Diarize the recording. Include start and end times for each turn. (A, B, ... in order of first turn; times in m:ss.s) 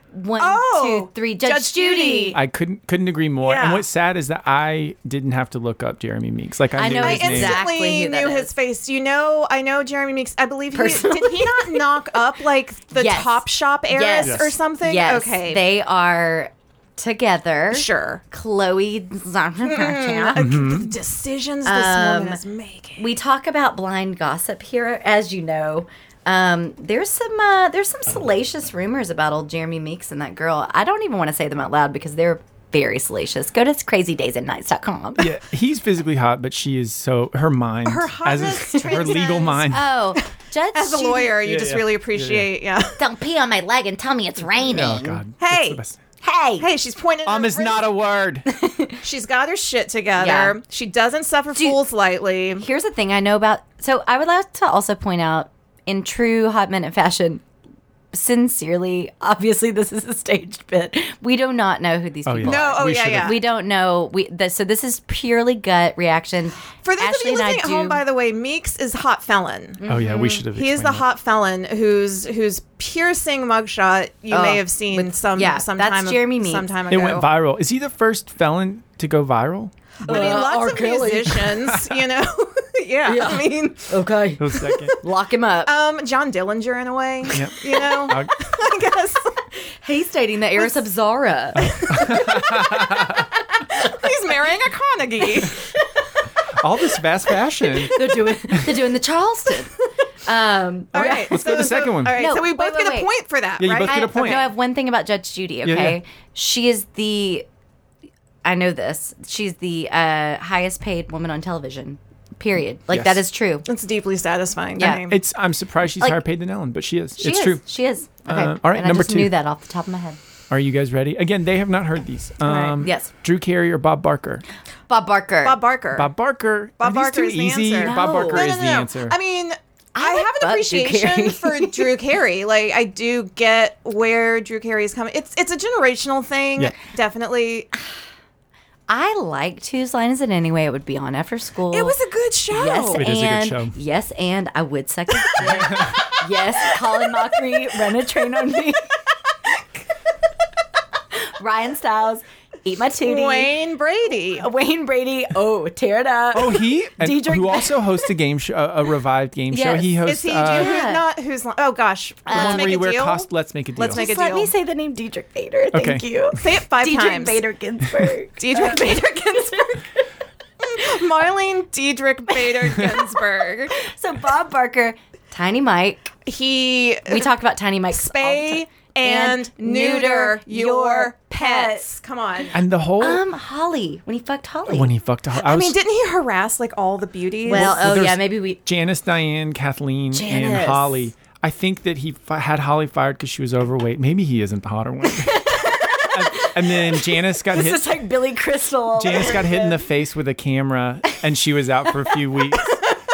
0:00.1-0:02.4 A
0:00.4-0:02.4 B
0:02.3-0:07.6 C
0:03.4-0:03.8 B
0:06.8-0:08.5 A
0:07.0-0:15.6 B
0:10.7-0:12.1 A
0:12.9-0:20.4 A
0:14.2-0:14.6 C
0:17.7-0:18.2 B
0:19.6-0:23.1 B
0:20.4-0:20.9 C
0:21.6-0:22.4 A
0:23.0-0:35.3 A
0:35.2-0:39.9 C
0:37.8-0:39.7 B
0:38.7-0:39.1 A
0:39.7-0:41.4 A
0:40.7-0:43.0 B
0:41.4-0:42.5 C
0:43.0-0:45.2 A
0:44.6-0:46.0 C
0:45.4-0:45.8 B
0:46.2-0:46.6 A
0:46.6-0:47.9 B
0:47.2-0:48.4 C
0:48.4-0:49.0 A
0:49.0-0:52.6 B
0:50.2-0:50.6 A
0:52.6-0:57.4 A
0:58.1-1:08.0 A
1:02.2-1:03.4 C
1:02.4-1:03.4 B
1:06.8-1:17.3 B
1:09.8-1:10.4 A
1:09.9-1:11.0 C
1:14.3-1:16.7 A
1:16.9-1:20.4 C
1:20.0-1:24.0 B
1:20.0-1:21.5 A
1:21.7-1:22.0 C
1:23.0-1:25.7 A
1:24.4-1:25.0 C
1:24.6-1:25.0 B
1:25.6-1:29.4 B
1:27.3-1:28.3 C
1:29.8-1:32.5 A
1:31.6-1:33.2 C
1:31.7-1:35.6 B
1:33.7-1:34.1 A
1:36.6-1:38.7 C
1:37.6-1:38.0 B
1:37.9-1:41.5 A
1:40.9-1:44.4 B
1:41.0-1:42.2 C
1:42.1-1:43.1 A
1:43.6-1:44.5 C
1:43.8-1:47.4 A
1:45.6-1:46.0 C
1:48.4-1:53.6 A
1:52.9-1:53.2 C
1:53.6-1:55.2 B
1:54.8-1:55.0 A
1:54.8-1:57.7 C
1:57.2-2:00.2 A
1:58.2-1:59.3 C
2:00.5-2:04.4 C
2:02.4-2:02.8 B
2:02.8-2:03.1 A
2:04.9-2:05.6 A
2:05.4-2:06.1 B
2:05.9-2:09.2 C
2:06.8-2:17.7 B
2:07.8-2:08.4 A
2:09.9-2:11.9 A
2:18.9-2:22.0 A
2:21.7-2:23.0 B
2:22.5-2:28.9 A
2:22.9-2:23.8 C
2:25.2-2:26.8 B
2:25.5-2:26.0 C
2:31.3-2:33.5 A
2:33.0-2:34.4 B
2:34.4-2:37.9 A
2:36.3-2:40.8 C
2:39.5-2:41.0 A
2:40.0-2:44.5 B
2:42.2-2:42.8 A
2:42.3-2:44.0 C
2:43.9-2:50.0 A
2:45.7-2:46.0 C
2:46.3-2:47.4 B
2:48.4-2:49.6 B
2:50.6-2:53.8 B
2:52.5-2:52.9 A
2:53.7-2:56.1 A
2:56.2-2:57.3 B
2:57.1-3:01.8 A
2:57.9-3:02.6 B
3:02.5-3:03.2 C
3:03.0-3:04.9 A
3:04.7-3:05.8 C
3:05.4-3:07.8 B
3:07.4-3:08.6 A
3:07.5-3:17.9 C
3:10.1-3:10.9 A
3:15.1-3:19.8 A
3:19.0-3:22.8 C